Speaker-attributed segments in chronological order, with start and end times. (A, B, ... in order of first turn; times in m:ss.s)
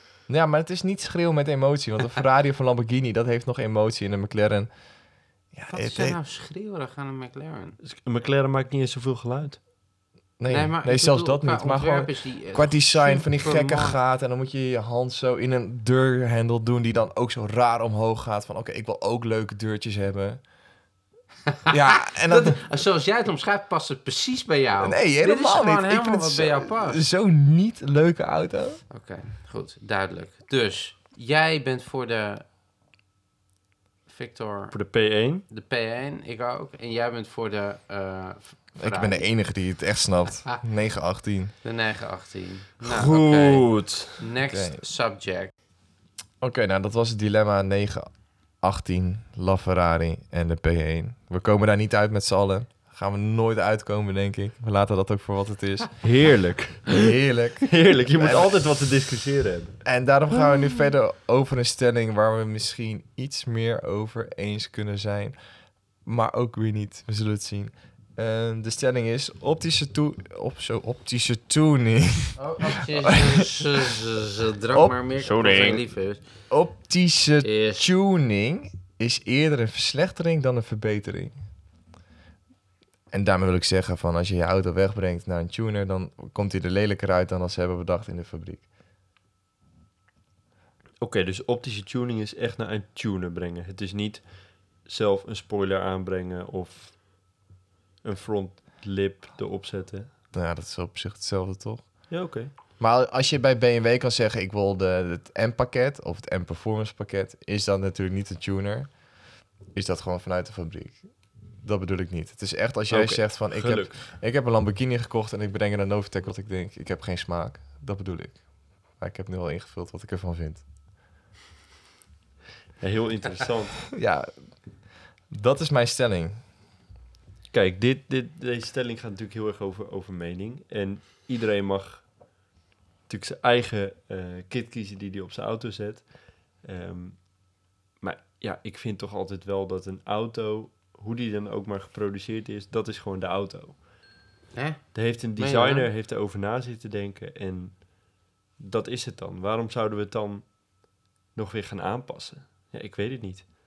0:00.3-0:04.7 A
0:05.5-0:06.2 A
0:05.7-0:07.8 B
0:07.8-0:09.6 C
0:10.4-0:20.4 A
0:10.5-0:14.0 B
0:21.5-0:27.0 B
0:21.7-0:22.6 A
0:24.8-0:28.8 A
0:28.9-0:32.4 B
0:34.1-0:34.8 B
0:34.7-0:35.4 C
0:35.5-0:39.3 B
0:38.8-0:41.5 A
0:41.6-0:45.5 B
0:42.8-0:44.2 C
0:44.5-0:44.8 A
0:46.4-0:48.1 A
0:48.6-0:55.9 A
0:56.0-0:57.2 C
0:56.9-0:58.6 A
0:57.7-0:59.8 C
0:59.8-1:05.4 A
1:06.0-1:14.0 A
1:12.4-1:16.2 B
1:14.7-1:15.0 A
1:15.2-1:15.8 C
1:16.5-1:21.3 A
1:17.4-1:17.9 B
1:23.1-1:28.7 A
1:31.0-1:37.0 C
1:38.0-1:40.1 C
1:40.3-1:42.2 A
1:42.1-1:42.5 C
1:42.8-1:48.9 A
1:49.7-1:51.0 A
1:51.6-1:58.4 A
1:52.9-1:54.1 C
1:59.0-2:00.6 A
2:02.8-2:03.9 C
2:03.9-2:04.3 A
2:05.3-2:06.4 A
2:07.5-2:12.1 C
2:13.1-2:17.3 C
2:18.0-2:23.8 C
2:24.5-2:25.9 B
2:24.9-2:27.9 C
2:28.6-2:30.6 C
2:31.3-2:33.4 C